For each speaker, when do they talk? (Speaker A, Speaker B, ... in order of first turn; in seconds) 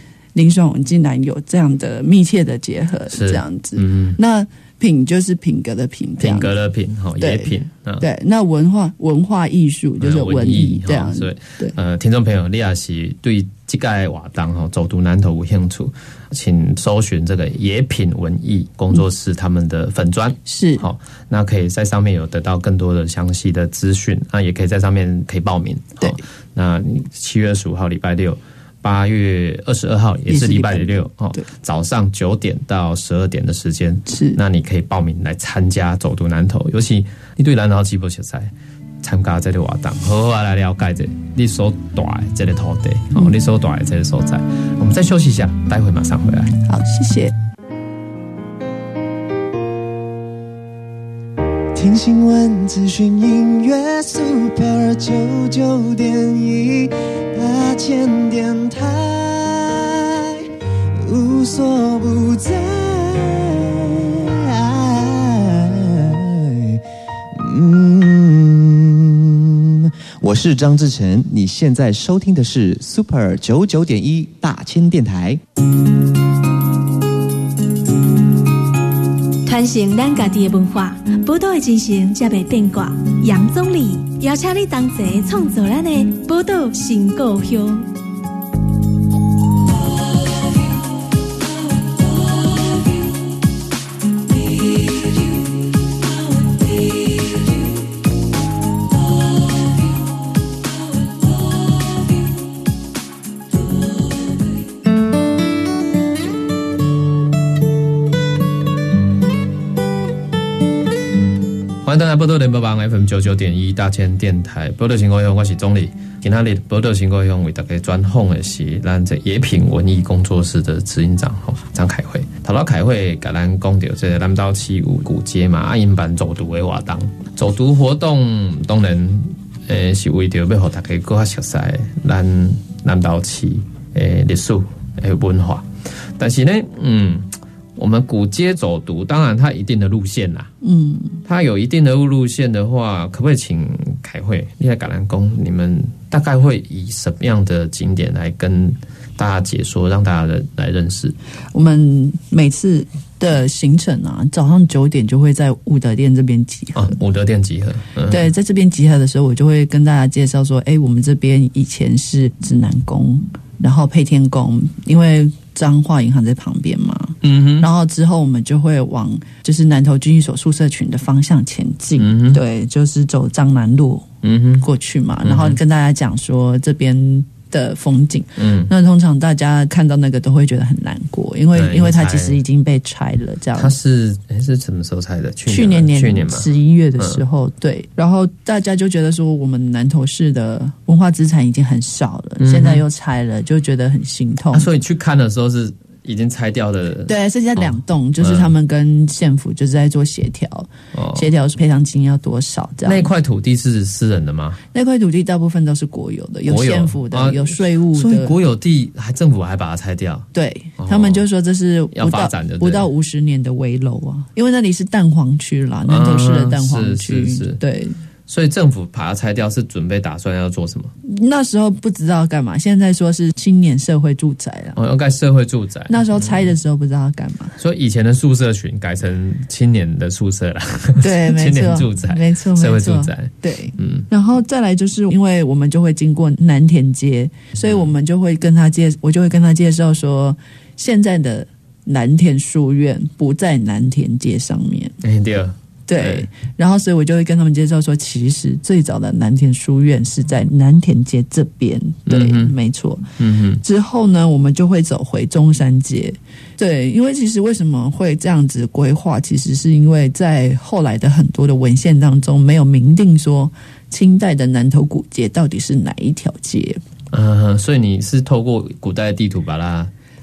Speaker A: 0.3-6.5, 7.2-11.8, 20.5-20.9, 30.3-31.5, 34.1-34.4, 46.6-47.3, 140.6-141.2, 151.5-156.9, 158.1-174.1, 174.6-183.7, 185.5-194.7, 197.1-203.1, 204.7-208.3, 210.3-218.0, 221.1-224.8, 225.9-227.6, 231.0-245.0, 245.9-253.1, 253.6-266.8
Speaker B: 3.1-4.2, 6.2-8.1, 10.0-46.5, 111.8-140.5, 141.2-151.2, 156.8-158.3, 167.2-167.7, 172.0-172.4, 174.2-174.7, 175.2-175.6, 178.4-178.7, 181.5-182.4, 183.6-187.2, 192.4-192.8, 194.5-197.7, 198.2-198.5, 200.9-201.3, 202.8-204.6, 206.5-210.3, 210.8-211.2, 211.9-212.9, 215.9-217.6, 218.3-220.9, 224.8-226.5, 227.6-234.1, 237.6-237.9, 245.0-246.3, 252.1-252.5, 253.2-253.6, 267.1-269.9
Speaker C: 51.8-60.5, 61.0-66.8, 67.4-75.4
Speaker D: 79.5-87.9